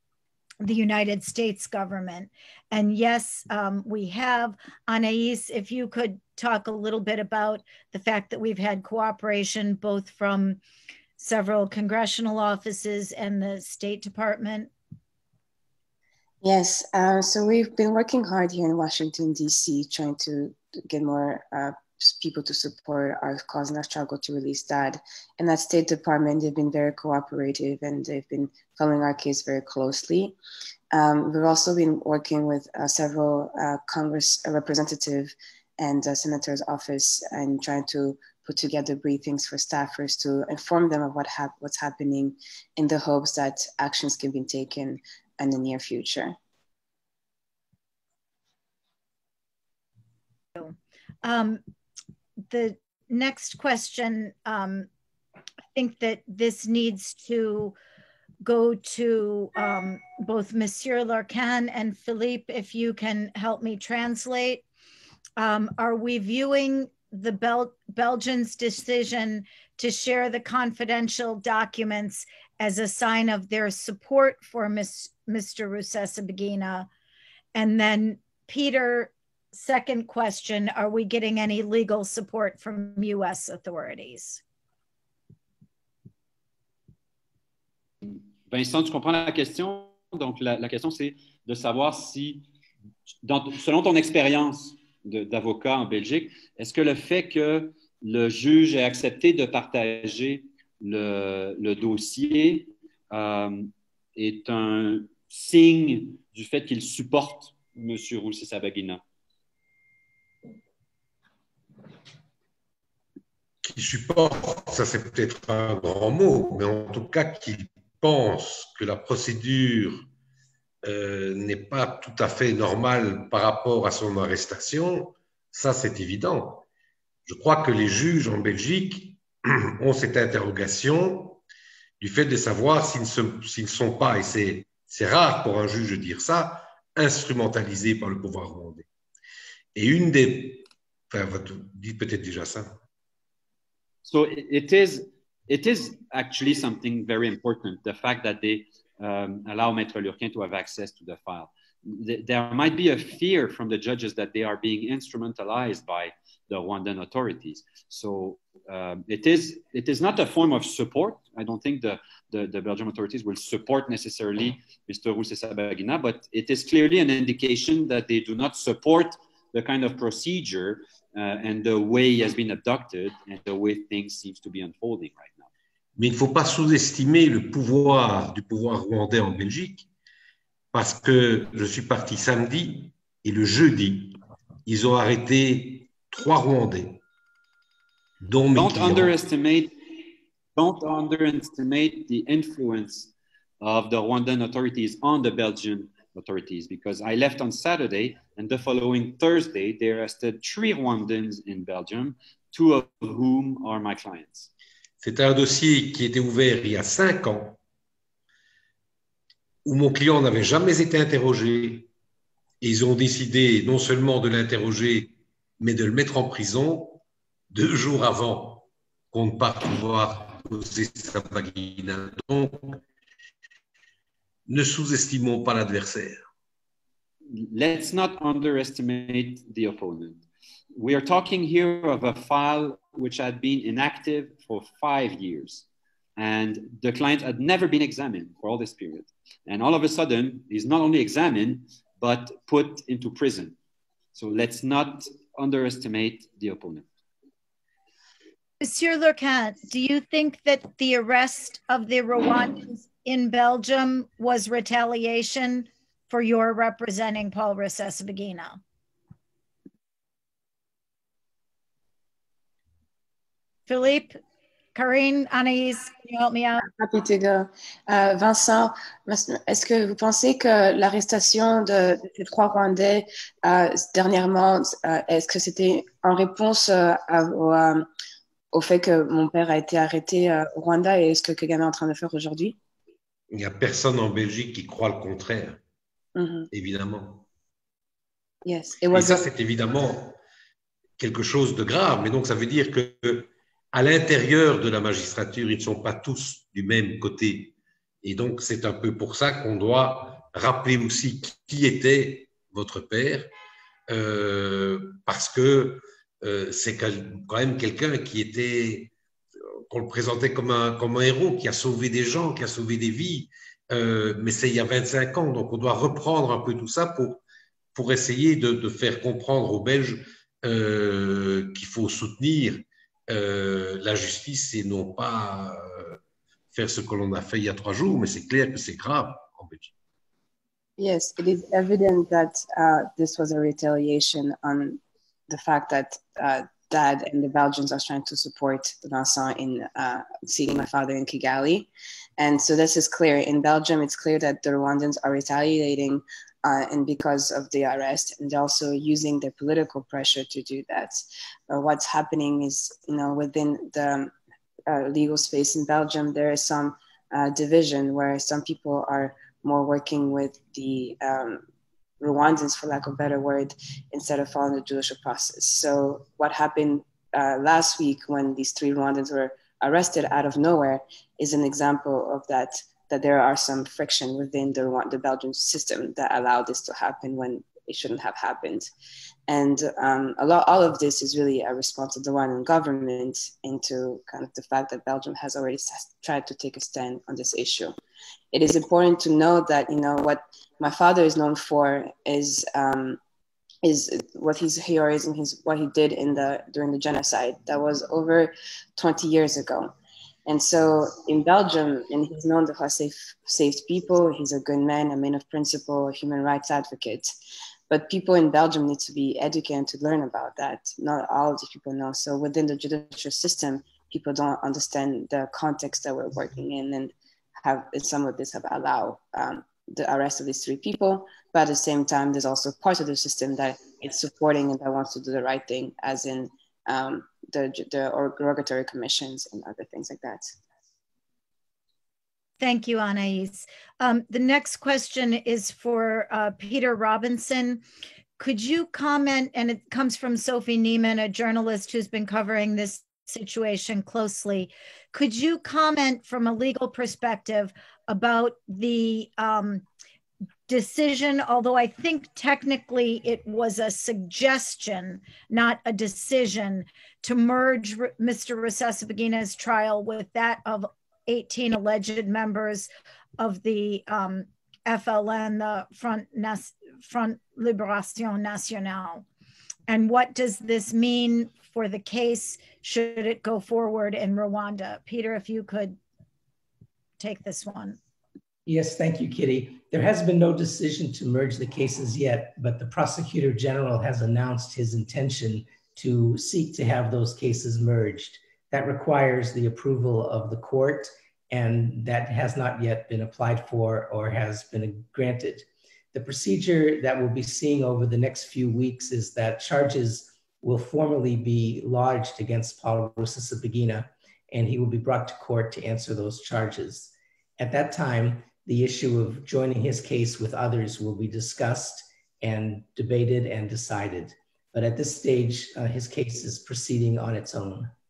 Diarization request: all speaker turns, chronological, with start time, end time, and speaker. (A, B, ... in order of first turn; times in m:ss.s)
0:00.6-0:10.6 A
0:11.2-0:14.7 A
0:16.4-0:30.4 B
0:30.9-0:46.4 B
0:50.6-0:51.6 A
0:52.5-0:54.9 A
0:55.8-0:57.8 A
0:58.4-1:04.6 A
1:05.4-1:16.9 A
1:17.6-1:24.4 A
1:28.1-1:32.5 C
1:33.2-1:49.0 C
1:53.6-2:00.1 D
2:00.8-2:06.7 D
2:07.3-2:11.4 D
2:12.0-2:18.9 D
2:19.8-2:22.8 D
2:24.0-2:55.5 C
2:56.0-2:59.9 D
3:00.7-3:07.0 D
3:08.2-3:09.2 D
3:08.6-3:09.7 C
3:10.6-3:24.5 C
3:25.0-3:27.6 D
3:29.6-3:31.9 D
3:32.6-3:42.8 D
3:44.5-3:46.2 D
3:47.3-3:55.6 C
3:56.2-4:03.6 C
4:04.1-4:06.9 C
4:08.6-4:18.6 A
4:23.7-4:24.2 A
4:24.8-4:26.6 A
4:26.6-4:37.9 B
4:38.5-4:42.6 B
4:43.3-4:45.6 D
4:46.2-4:46.5 B
4:46.5-4:47.2 D
4:48.4-4:49.3 B
4:48.9-4:50.2 D
4:51.0-5:03.3 D
5:03.9-5:08.9 D
5:09.7-5:17.2 D
5:17.8-5:26.0 D
5:26.5-5:29.7 D
5:30.8-5:54.1 B
5:54.7-6:01.4 B
6:02.0-6:18.7 B
6:19.3-6:27.8 B
6:28.3-6:33.0 B
6:33.6-6:39.7 B
6:40.3-6:47.1 B
6:47.7-7:10.4 B
7:12.4-7:17.6 A
7:18.2-7:29.6 A
7:30.5-7:49.0 A
7:49.7-7:55.8 A
7:57.0-7:57.8 A
7:58.5-8:37.7 E